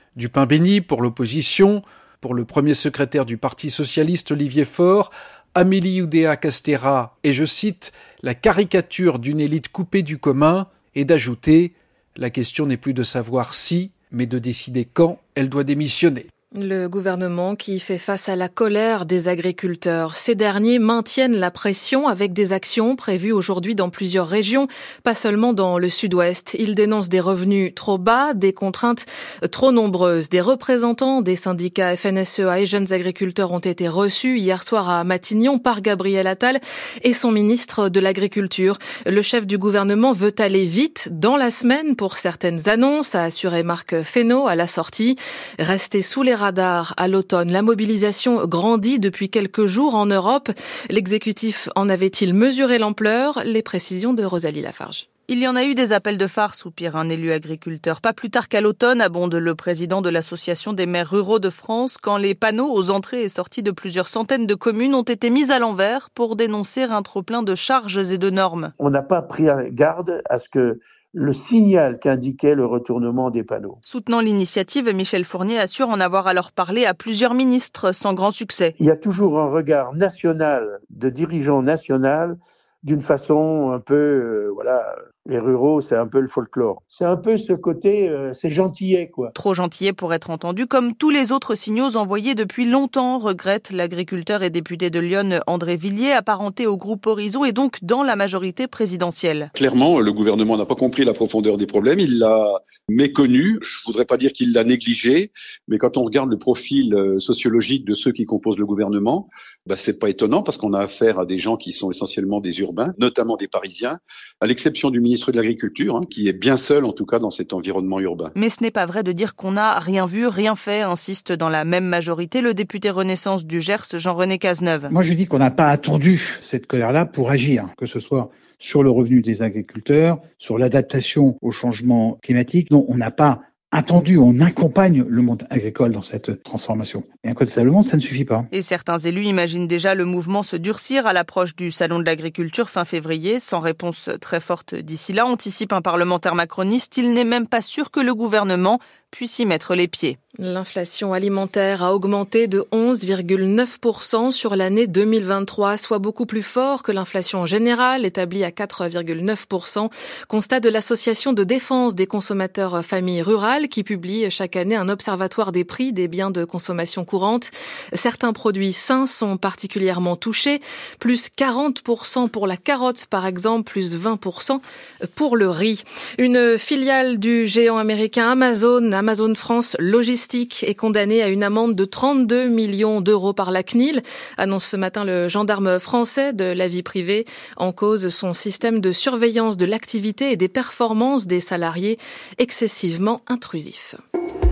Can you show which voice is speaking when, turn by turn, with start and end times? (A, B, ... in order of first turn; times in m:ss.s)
0:00.2-0:16.3 A
0:16.5-0:55.0 B
0:55.3-1:08.7 C
1:08.8-1:13.8 D
1:13.8-1:18.7 C
1:18.8-1:29.3 D
1:29.3-1:39.5 C
1:39.6-1:58.3 E
1:58.4-2:04.9 C
2:04.9-2:18.4 F
2:18.5-2:30.2 C
2:30.4-2:54.6 B
2:55.1-3:14.0 B